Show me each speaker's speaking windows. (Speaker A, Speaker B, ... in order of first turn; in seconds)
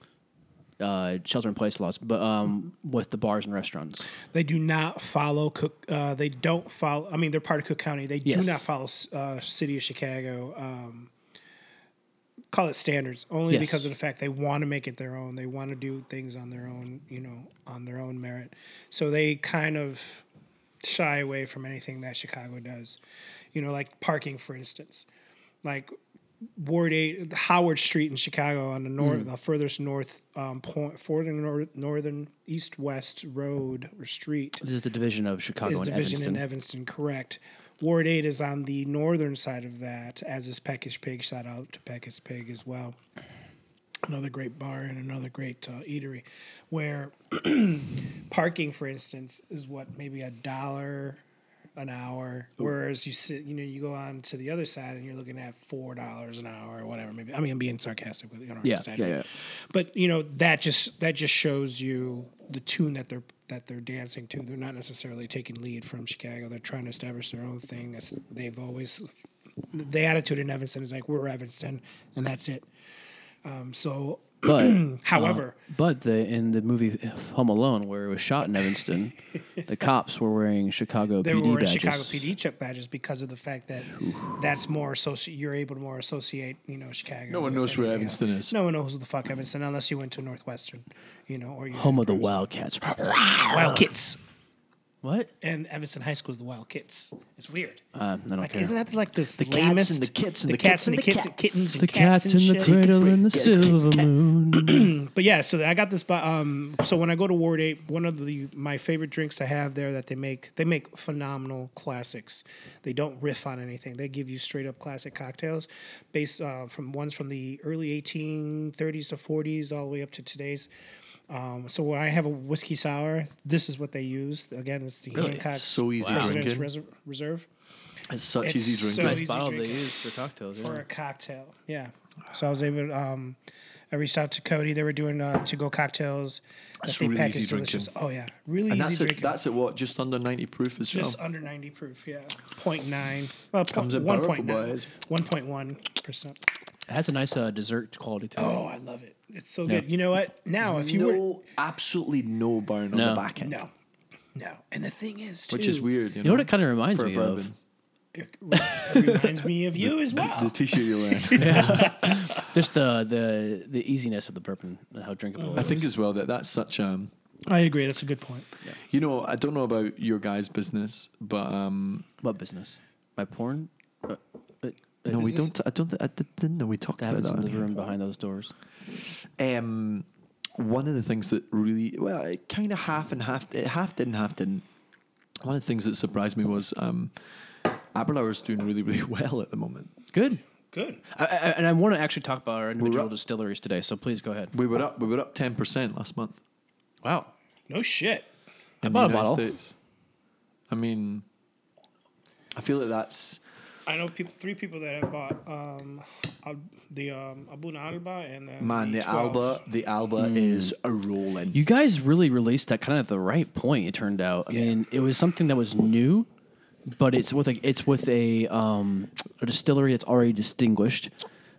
Speaker A: 0.8-4.1, 8.2-8.6, 13.5-13.9, 29.0-29.3, 34.6-36.4, 58.6-59.3, 74.4-82.3, 84.0-84.3, 91.7-93.9, 95.0-95.3, 98.0-98.7, 101.7-104.9, 125.1-126.4, 129.0-130.8, 146.9-148.6, 152.9-153.2, 156.2-157.5, 158.6-159.2, 161.3-165.9, 172.2-175.5, 177.0-178.5, 190.1-190.4, 191.1-194.5, 197.0-197.3, 198.9-199.5, 210.2-210.7, 211.5-216.3, 216.9-221.1
Speaker B: 4.3-11.1, 12.5-20.2, 20.8-23.0, 23.5-25.1, 25.6-25.9, 26.6-34.6, 35.6-43.0, 44.0-51.2, 51.8-69.1, 69.7-72.7, 73.4-75.6, 81.2-92.4, 93.5-94.2, 95.4-97.8, 98.4-103.7, 104.5-120.7, 121.3-127.5, 128.4-129.9, 130.6-133.4, 133.9-139.4, 140.9-146.4, 148.4-151.2, 153.4-153.7, 154.3-155.9, 158.2-162.5, 167.5-168.5, 190.7-191.0, 197.7-198.3, 203.9-209.6
Speaker C: 87.3-88.5, 99.4-101.5, 102.7-104.1, 125.2-126.7, 128.1-129.2, 136.8-137.9, 138.7-141.2, 143.7-144.9, 150.6-153.6, 155.5-157.6, 159.8-161.9, 165.6-167.1, 168.8-172.1, 175.1-177.7, 179.2-184.7, 185.4-187.1, 187.7-189.9, 192.8-193.1, 194.5-196.4, 198.8-199.8, 200.7-201.2, 202.5-203.4, 208.6-211.6